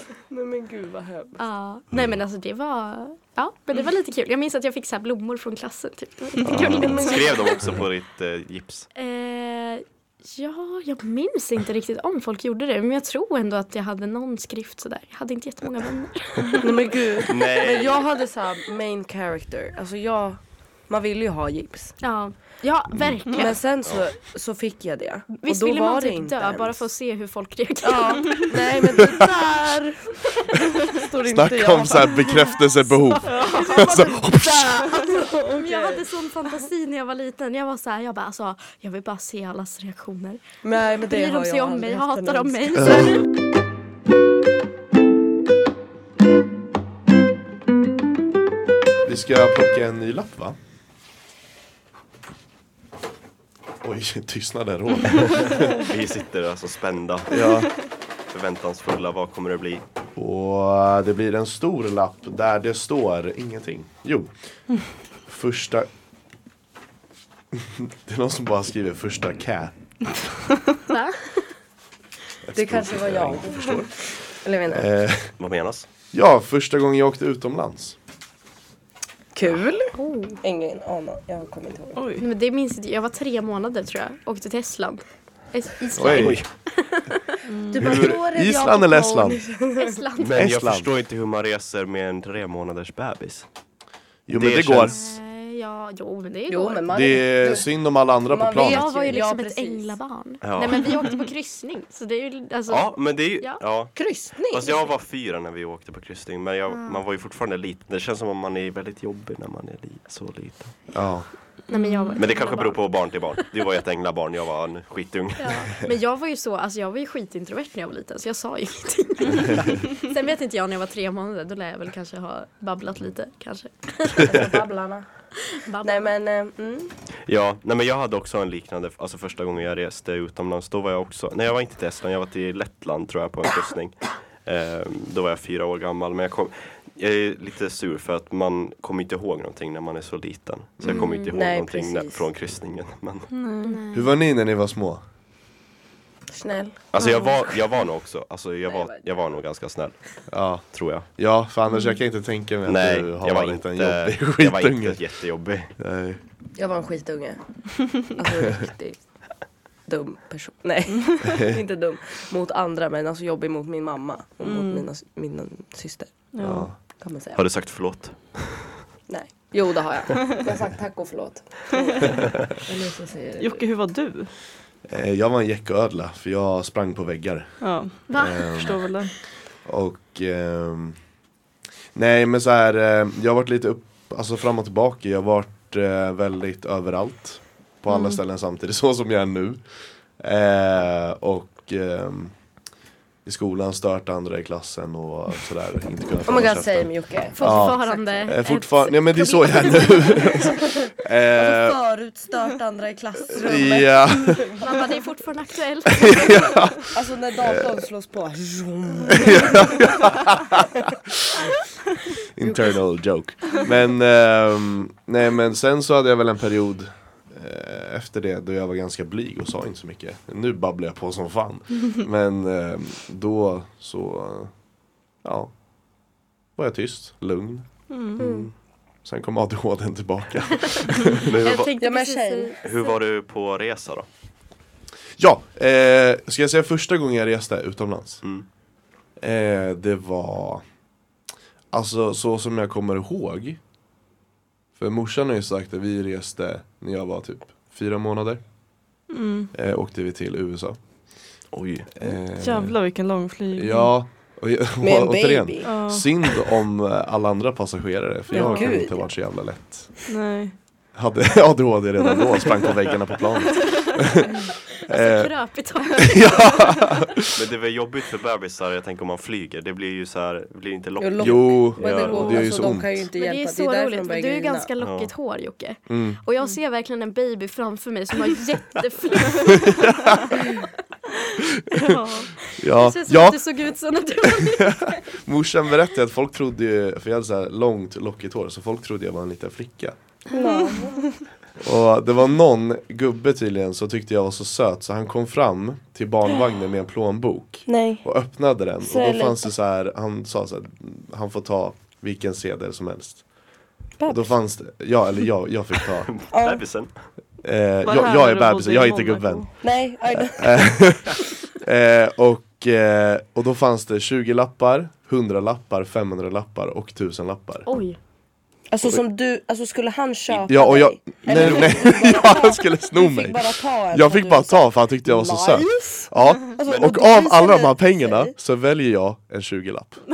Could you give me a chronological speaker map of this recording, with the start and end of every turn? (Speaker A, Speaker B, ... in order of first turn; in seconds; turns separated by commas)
Speaker A: 0.3-1.4, Speaker B: 1.4-7.6, Speaker C: 6.4-7.0, Speaker A: 6.5-7.7, Speaker D: 7.0-8.9, Speaker B: 8.9-17.2, Speaker A: 16.6-22.0, Speaker D: 17.3-18.0, Speaker B: 22.0-23.6, Speaker A: 23.3-26.9, Speaker B: 25.3-28.5, Speaker A: 27.8-32.6, Speaker C: 31.2-34.9, Speaker B: 32.8-43.3, Speaker E: 33.3-34.0, Speaker A: 34.9-36.0, Speaker A: 40.6-43.1, Speaker C: 42.8-43.1, Speaker C: 49.0-50.6, Speaker C: 53.8-55.7, Speaker D: 55.6-57.5, Speaker C: 57.3-57.7, Speaker D: 58.3-59.8, Speaker C: 60.1-64.3, Speaker C: 65.2-65.9, Speaker C: 67.5-69.7, Speaker B: 70.9-71.4, Speaker C: 72.4-74.0, Speaker A: 72.5-74.9, Speaker C: 74.7-75.3, Speaker D: 75.4-75.9, Speaker C: 76.1-78.0, Speaker A: 79.3-82.0, Speaker B: 79.9-80.4, Speaker E: 81.9-82.3, Speaker B: 82.2-87.4, Speaker C: 86.0-86.4, Speaker D: 86.0-86.5, Speaker E: 87.5-87.8, Speaker A: 87.7-90.0, Speaker D: 87.7-88.2, Speaker C: 87.8-89.4, Speaker B: 89.8-90.4, Speaker D: 90.2-93.4, Speaker C: 90.3-90.9, Speaker C: 94.3-95.0, Speaker D: 94.3-95.2, Speaker B: 94.8-96.9, Speaker A: 96.5-97.7, Speaker C: 96.9-98.9, Speaker A: 98.2-99.9, Speaker B: 98.5-103.6, Speaker D: 100.4-101.1, Speaker D: 102.7-110.8, Speaker A: 103.9-104.7, Speaker B: 106.7-107.0, Speaker C: 110.9-111.3, Speaker B: 111.7-113.4, Speaker E: 111.7-112.2, Speaker D: 112.2-115.8, Speaker B: 115.4-124.5, Speaker A: 124.2-125.1, Speaker B: 125.5-126.1, Speaker A: 125.8-126.9, Speaker D: 127.3-143.3, Speaker B: 140.8-141.3, Speaker A: 141.3-142.2, Speaker E: 143.3-143.8, Speaker B: 143.6-144.1, Speaker C: 143.9-145.0, Speaker A: 146.3-147.3, Speaker D: 146.9-149.9, Speaker B: 147.0-147.4, Speaker A: 148.7-149.1, Speaker C: 150.3-155.0, Speaker D: 150.7-151.1, Speaker D: 152.7-155.7, Speaker C: 155.8-156.2, Speaker A: 156.6-159.0, Speaker A: 159.9-166.3, Speaker C: 161.2-161.6, Speaker E: 164.4-164.9, Speaker E: 166.3-166.7, Speaker C: 166.4-166.8, Speaker A: 167.0-167.4, Speaker D: 167.3-168.8, Speaker A: 169.1-173.6, Speaker E: 173.4-174.3, Speaker C: 174.9-178.8, Speaker E: 177.6-179.1, Speaker B: 178.1-178.8, Speaker C: 179.7-181.0, Speaker C: 181.9-189.6, Speaker C: 190.2-192.3, Speaker C: 193.2-201.8, Speaker A: 196.2-198.2, Speaker B: 197.3-200.5, Speaker A: 200.4-204.9, Speaker C: 203.3-204.5, Speaker B: 204.5-206.8, Speaker C: 205.9-206.9, Speaker A: 206.9-209.9, Speaker C: 209.1-211.6, Speaker C: 212.2-224.5, Speaker A: 212.4-212.7, Speaker C: 225.2-225.5, Speaker C: 226.6-227.7, Speaker E: 227.9-228.2, Speaker D: 228.2-228.5, Speaker B: 228.2-228.5, Speaker C: 229.0-231.3, Speaker B: 230.6-232.6, Speaker D: 231.3-231.7, Speaker A: 231.8-232.6, Speaker D: 232.6-234.1, Speaker C: 235.2-238.2, Speaker C: 239.2-240.6, Speaker C: 241.7-243.6, Speaker C: 244.8-248.4, Speaker E: 249.1-249.5, Speaker C: 249.5-250.8, Speaker D: 251.5-251.9, Speaker C: 251.9-252.8, Speaker E: 252.1-253.9, Speaker C: 253.5-259.9, Speaker A: 254.8-255.7, Speaker E: 255.6-256.2, Speaker A: 258.3-259.1, Speaker E: 258.4-258.8, Speaker E: 260.1-260.6, Speaker C: 260.9-265.3, Speaker B: 264.2-267.0, Speaker C: 266.0-267.4, Speaker D: 267.3-272.3, Speaker A: 271.0-274.7, Speaker C: 271.2-273.1, Speaker E: 272.0-272.6, Speaker B: 273.1-280.6, Speaker D: 274.8-275.1, Speaker C: 275.9-276.2, Speaker C: 279.5-280.5, Speaker C: 281.5-282.0, Speaker E: 281.8-282.3, Speaker B: 282.4-285.0, Speaker C: 282.5-283.4, Speaker C: 284.2-289.9, Speaker A: 290.3-291.0, Speaker C: 291.6-303.2, Speaker A: 297.7-298.1, Speaker A: 298.8-299.5, Speaker A: 304.0-304.4, Speaker C: 304.1-306.1, Speaker D: 306.0-306.9, Speaker A: 306.3-306.6, Speaker C: 307.4-309.6, Speaker E: 307.8-309.5, Speaker A: 309.6-310.9, Speaker C: 310.1-317.6, Speaker B: 317.6-318.0, Speaker A: 318.7-325.8, Speaker C: 320.4-330.0, Speaker B: 325.6-326.1, Speaker A: 326.5-328.3